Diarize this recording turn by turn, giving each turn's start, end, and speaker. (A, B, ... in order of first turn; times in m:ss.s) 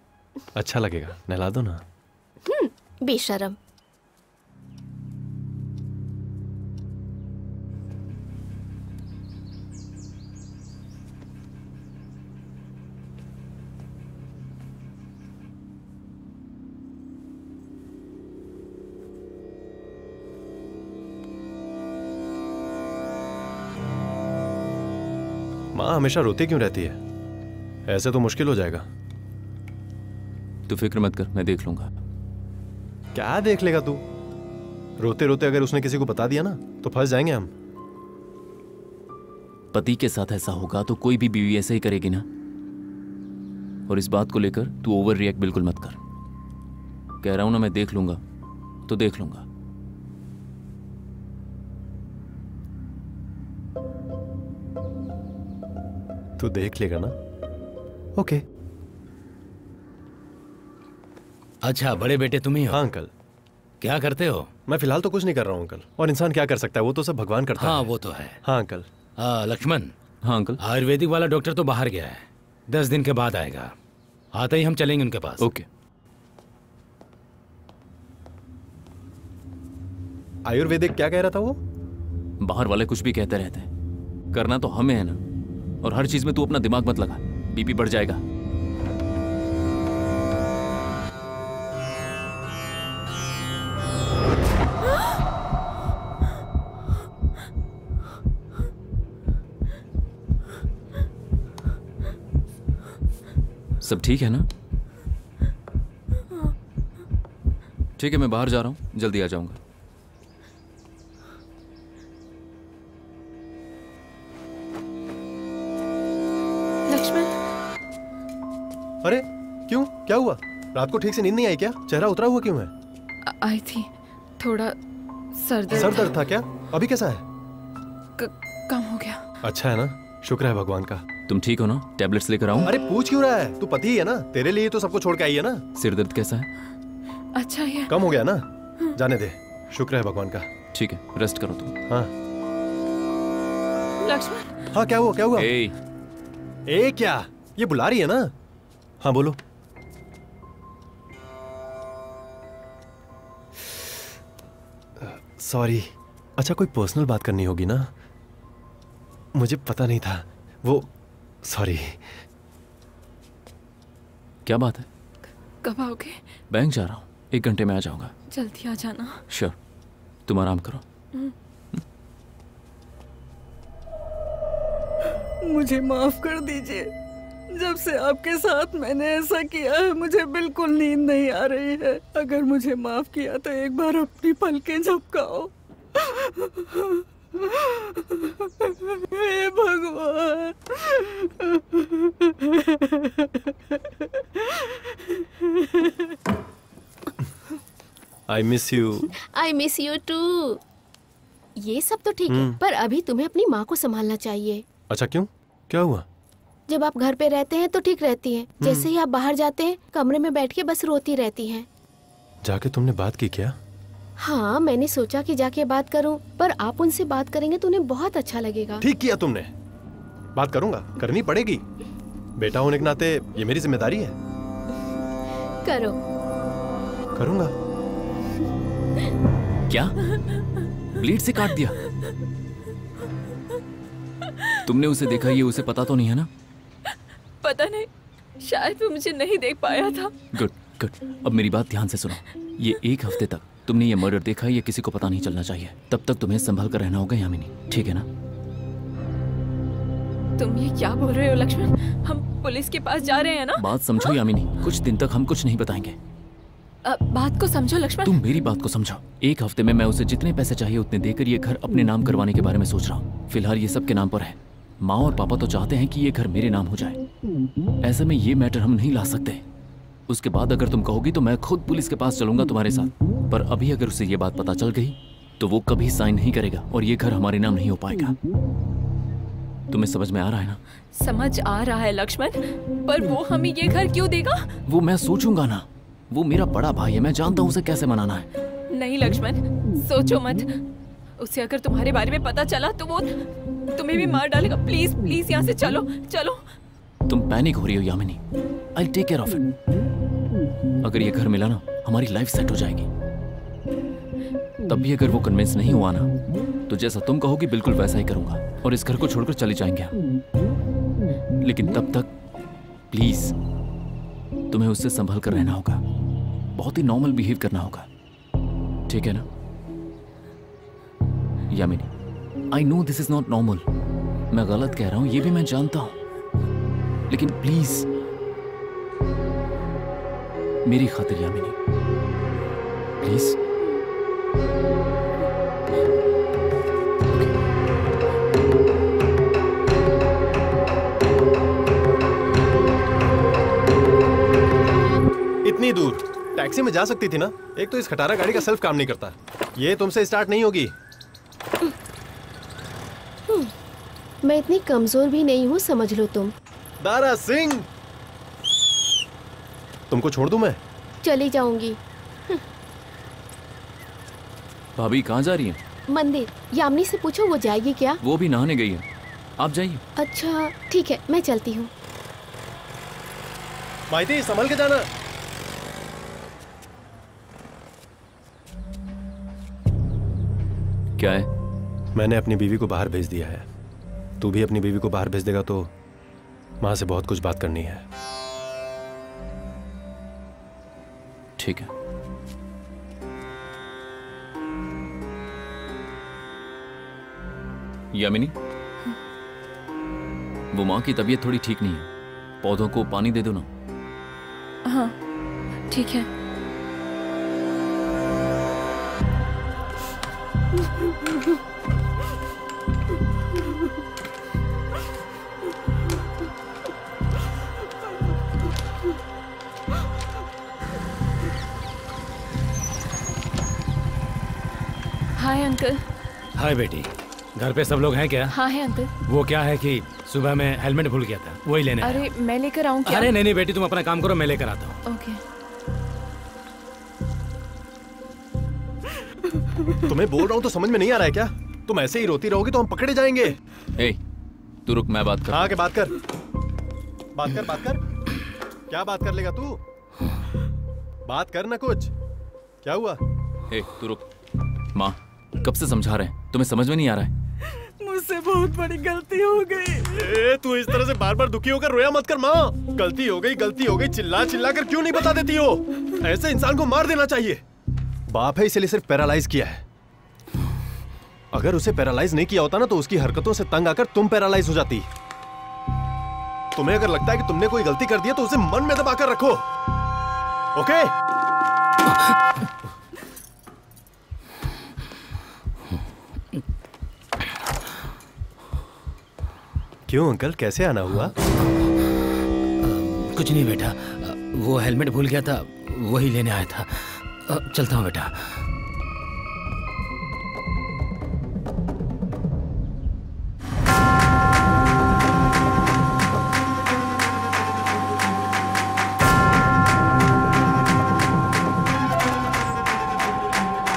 0:00.6-0:01.8 A
0:02.4-0:03.6 B
0:25.7-0:27.0 A
0:27.9-0:28.9 A
0:30.7-0:31.9 C
0:33.2-0:34.0 A
0:35.0-0:37.5 A
0:39.7-0:42.3 C
0:43.9-0:46.0 C
0:47.2-0:48.2 C
0:48.9-0:49.4 C
0:56.4-0:57.2 A
0:58.2-0:58.4 A
1:01.6-1:02.8 D
1:02.7-1:03.1 A
1:03.8-1:04.5 D
1:04.7-1:07.9 A
1:07.6-1:08.4 D
1:08.4-1:08.9 A
1:09.2-1:09.9 D
1:10.2-1:10.6 C
1:10.6-1:13.7 D
1:14.3-1:15.5 D
1:15.4-1:15.7 C
1:20.4-1:21.6 A
1:22.4-1:23.7 C
1:24.3-1:25.2 C
1:25.8-1:28.2 C
1:43.8-1:44.5 C
1:48.0-1:49.6 C
1:56.9-1:57.4 E
1:59.0-2:02.7 A
2:03.3-2:04.8 E
2:05.3-2:06.1 E
2:05.7-2:07.2 A
2:08.2-2:09.2 E
2:09.4-2:11.0 A
2:11.3-2:12.8 C
2:12.6-2:15.6 A
2:15.8-2:16.5 C
2:17.4-2:17.9 E
2:17.9-2:20.5 A
2:20.7-2:21.7 C
2:24.0-2:24.6 E
2:24.7-2:25.5 A
2:25.4-2:25.7 C
2:26.7-2:28.3 A
2:29.0-2:29.4 A
2:35.0-2:37.9 A
2:39.4-2:40.9 A
2:41.4-2:42.0 A
2:44.5-2:44.9 C
2:45.6-2:46.2 E
2:46.5-2:48.1 C
2:48.3-2:49.2 E
2:50.3-2:50.8 C
2:55.4-2:56.9 F
2:57.5-3:16.1 F
3:18.3-3:19.1 A
3:19.2-3:20.6 B
3:21.6-3:24.6 B
3:22.3-3:22.6 A
3:24.9-3:26.0 A
3:26.7-3:31.7 B
3:28.6-3:28.9 A
3:32.4-3:33.6 A
3:34.2-3:38.9 B
3:38.8-3:39.5 A
3:40.4-3:41.6 A
3:42.4-3:44.2 A
3:45.6-3:46.0 B
3:47.2-3:47.5 A
3:49.7-3:50.0 C
3:51.0-3:51.8 C
3:54.6-3:56.3 C
3:57.4-3:57.9 E
3:58.4-4:00.1 E
4:00.3-4:08.1 C
4:10.4-4:14.1 E
4:13.6-4:16.0 C
4:16.8-4:18.2 E
4:18.0-4:27.0 C
4:27.8-4:29.4 C
4:30.1-4:38.2 C
4:39.7-4:40.6 C
4:41.0-4:44.6 E
4:44.7-4:48.3 C
4:48.7-4:50.5 E
4:51.2-4:53.2 E
4:53.8-4:56.4 E
4:57.1-4:58.2 C
4:58.8-4:59.5 C
5:00.8-5:02.9 C
5:04.7-5:06.1 C
5:06.7-5:10.0 C
5:11.4-5:12.1 C
5:12.9-5:13.3 C
5:14.5-5:15.8 C
5:16.6-5:17.9 C
5:18.9-5:19.3 C
5:21.5-5:21.9 C
5:22.5-5:23.6 C
5:24.3-5:26.0 C
5:27.1-5:27.9 C
5:30.6-5:31.5 C
5:33.0-5:33.4 C
5:45.4-5:50.7 A
5:54.2-5:56.3 B
5:56.8-5:57.7 A
5:59.9-6:00.6 A
6:01.0-6:01.8 B
6:04.8-6:05.6 C
6:05.9-6:08.0 B
6:08.0-6:08.8 C
6:09.4-6:09.8 C
6:10.0-6:11.7 B
6:13.9-6:14.9 A
6:21.0-6:21.3 C
6:22.0-6:23.5 A
6:24.2-6:25.7 A
6:26.6-6:27.8 A
6:31.4-6:31.7 C
6:37.9-6:38.3 C
6:40.5-6:41.9 C
6:42.4-6:43.5 C
6:44.7-6:45.0 E
6:45.7-6:46.1 E
7:05.2-7:05.8 E
7:06.4-7:08.3 D
7:08.3-7:08.9 E
7:09.1-7:12.1 D
7:11.8-7:13.1 E
7:12.9-7:14.8 D
7:14.9-7:15.2 E
7:19.9-7:23.4 A
7:24.7-7:25.6 C
7:25.3-7:25.9 A
7:27.1-7:27.8 A
7:28.7-7:29.6 A
7:31.1-7:31.9 A
7:32.6-7:33.0 A
7:33.5-7:34.1 C
7:34.8-7:37.1 C
7:37.5-7:39.9 F
7:39.9-7:47.4 A
7:48.1-7:49.6 A
7:51.3-7:54.9 A
7:56.6-7:59.4 A
8:00.6-8:00.9 A
8:09.9-8:11.1 A
8:12.6-8:18.3 D